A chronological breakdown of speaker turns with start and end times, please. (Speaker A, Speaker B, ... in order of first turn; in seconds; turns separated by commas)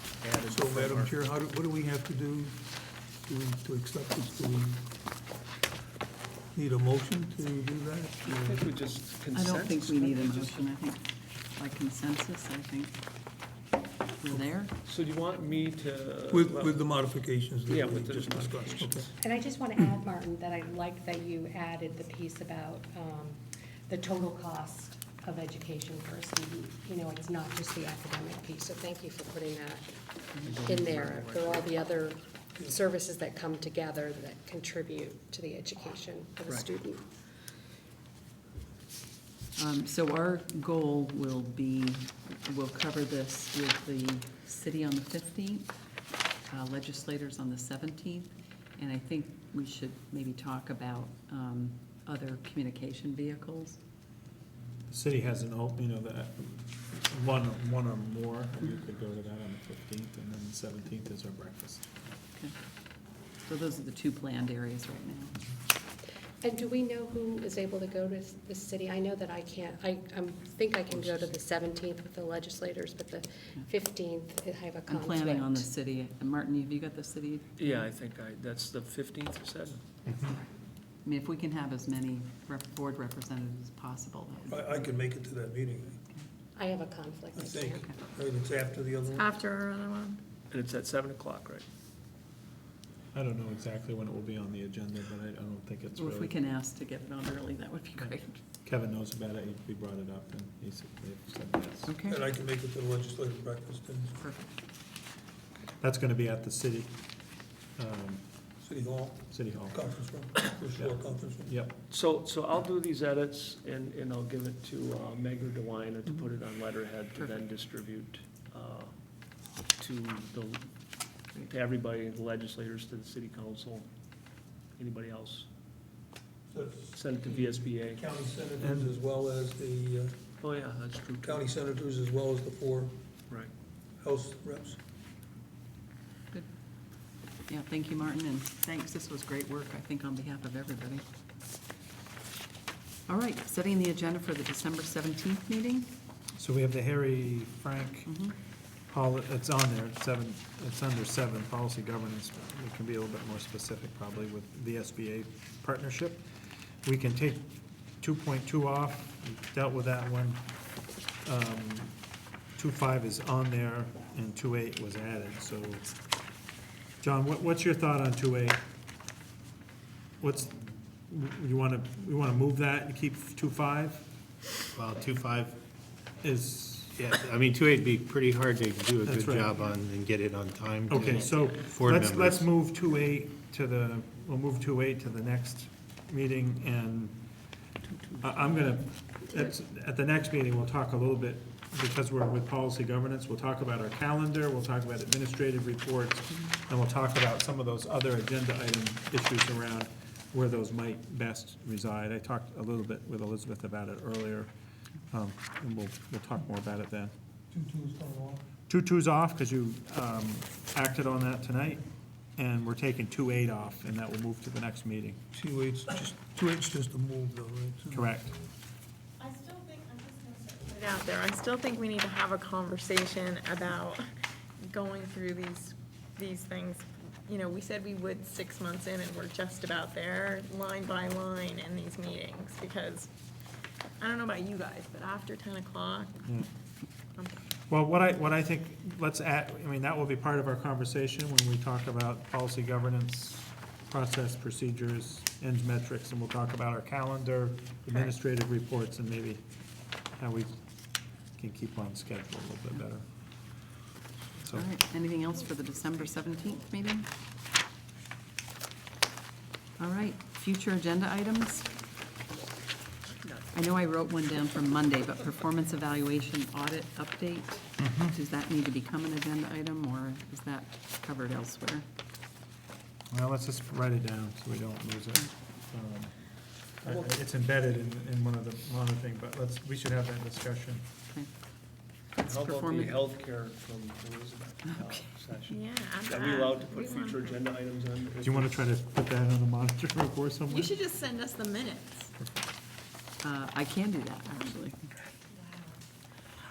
Speaker A: 0.2-1.1, Speaker B: 0.4-2.6, Speaker B: 3.2-4.9, Speaker B: 6.5-8.7, Speaker A: 8.2-10.8, Speaker C: 9.3-12.9, Speaker C: 14.2-14.7, Speaker A: 14.8-16.9, Speaker B: 16.3-19.1, Speaker A: 17.7-19.1, Speaker D: 19.2-29.9, Speaker A: 30.4-31.7, Speaker D: 30.5-37.0, Speaker C: 39.5-45.7, Speaker C: 46.5-53.8, Speaker E: 54.9-61.9, Speaker C: 63.5-65.4, Speaker D: 66.4-75.7, Speaker A: 70.9-71.4, Speaker C: 74.9-77.8, Speaker A: 77.6-79.8, Speaker E: 80.0-80.4, Speaker C: 81.0-84.8, Speaker B: 84.5-86.0, Speaker D: 86.5-88.1, Speaker B: 87.3-89.3, Speaker F: 89.0-90.2, Speaker A: 90.5-91.7, Speaker E: 93.1-96.3, Speaker C: 96.0-98.4, Speaker E: 98.6-101.9, Speaker C: 101.9-102.2, Speaker B: 102.0-104.2, Speaker C: 104.2-104.5, Speaker E: 105.8-107.0, Speaker E: 107.8-108.2, Speaker B: 108.6-111.5, Speaker E: 109.3-109.9, Speaker E: 111.5-111.8, Speaker A: 111.9-118.9, Speaker A: 119.8-120.7, Speaker A: 121.4-123.9, Speaker A: 124.8-125.5, Speaker B: 126.5-130.2, Speaker A: 126.9-128.0, Speaker E: 128.6-128.9, Speaker A: 130.4-131.5, Speaker B: 131.2-132.9, Speaker B: 134.0-134.8, Speaker C: 137.5-141.0, Speaker C: 143.1-145.9, Speaker E: 146.3-148.1, Speaker C: 148.1-148.3, Speaker E: 148.9-156.2, Speaker E: 156.8-160.5, Speaker E: 161.2-162.0, Speaker E: 162.6-165.9, Speaker E: 167.0-168.6, Speaker E: 170.2-174.1, Speaker G: 174.7-175.6, Speaker E: 176.2-177.0, Speaker G: 176.9-182.5, Speaker E: 179.0-179.6, Speaker E: 180.9-187.5, Speaker A: 187.9-188.5, Speaker E: 188.2-204.5, Speaker E: 205.1-207.1, Speaker B: 207.5-208.4, Speaker E: 208.7-211.8, Speaker E: 212.3-215.2, Speaker B: 215.3-218.1, Speaker E: 217.9-218.3, Speaker F: 219.2-224.0, Speaker F: 224.7-233.1, Speaker F: 234.0-236.2, Speaker E: 237.7-249.4, Speaker E: 250.1-250.6, Speaker E: 251.3-253.1, Speaker C: 254.5-257.1, Speaker A: 255.4-256.9, Speaker C: 259.8-261.7, Speaker A: 263.1-263.5, Speaker C: 263.5-271.9, Speaker E: 267.8-268.1, Speaker E: 273.1-280.9, Speaker C: 282.1-283.0, Speaker A: 282.2-288.6, Speaker C: 284.7-285.0, Speaker F: 285.5-287.5, Speaker E: 288.2-290.8, Speaker F: 290.5-292.1, Speaker E: 292.2-292.4, Speaker C: 293.2-294.9, Speaker F: 295.3-295.8